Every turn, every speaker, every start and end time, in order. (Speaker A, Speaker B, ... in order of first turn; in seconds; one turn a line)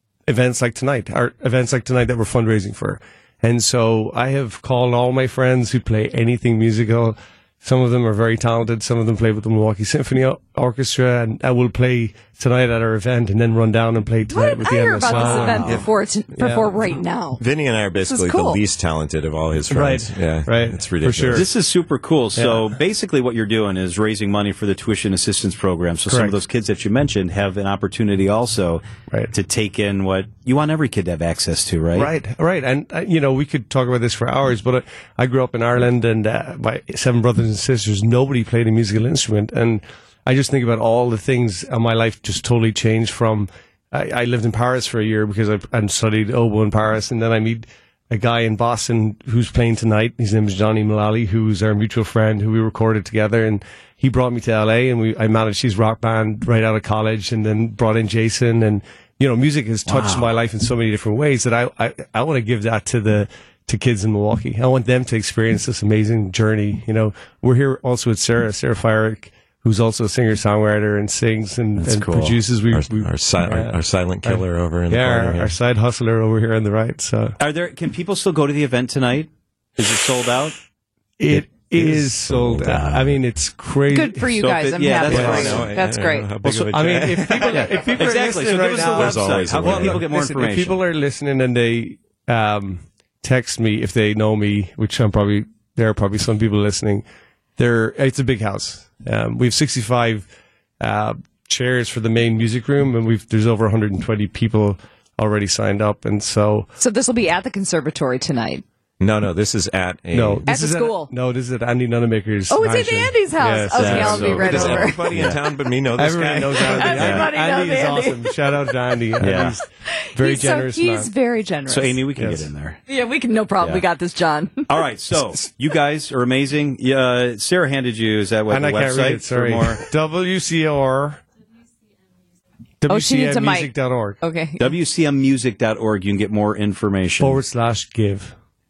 Speaker A: 0.3-15.8
Speaker B: 14.3-18.6
Speaker C: 15.1-15.8
Speaker A: 16.4-16.7
Speaker D: 17.4-21.5
Speaker A: 19.7-21.5
Speaker C: 21.3-32.1
Speaker A: 22.4-22.6
Speaker A: 26.1-26.4
Speaker A: 31.9-77.4
Speaker C: 59.9-60.3
Speaker C: 71.8-72.4
Speaker D: 72.7-75.5
Speaker C: 77.4-80.6
Speaker A: 81.2-84.3
Speaker D: 81.8-83.2
Speaker B: 83.9-86.3
Speaker C: 84.4-85.8
Speaker A: 85.0-85.6
Speaker D: 85.1-87.7
Speaker C: 86.4-90.8
Speaker A: 86.7-97.0
Speaker D: 88.9-90.0
Speaker A: 97.6-100.3
Speaker A: 100.8-106.7
Speaker B: 106.8-108.6
Speaker D: 109.0-110.5
Speaker A: 110.1-115.3
Speaker B: 110.5-111.1
Speaker B: 112.5-115.1
Speaker C: 113.7-114.6
Speaker D: 114.4-117.3
Speaker A: 116.0-121.1
Speaker B: 116.6-122.0
Speaker C: 117.0-117.3
Speaker C: 119.2-119.6
Speaker C: 121.7-122.8
Speaker A: 122.2-122.5
Speaker B: 122.9-124.7
Speaker C: 124.7-129.9
Speaker A: 128.5-131.2
Speaker A: 132.8-134.2
Speaker B: 132.9-134.7
Speaker C: 134.6-137.4
Speaker A: 137.2-138.3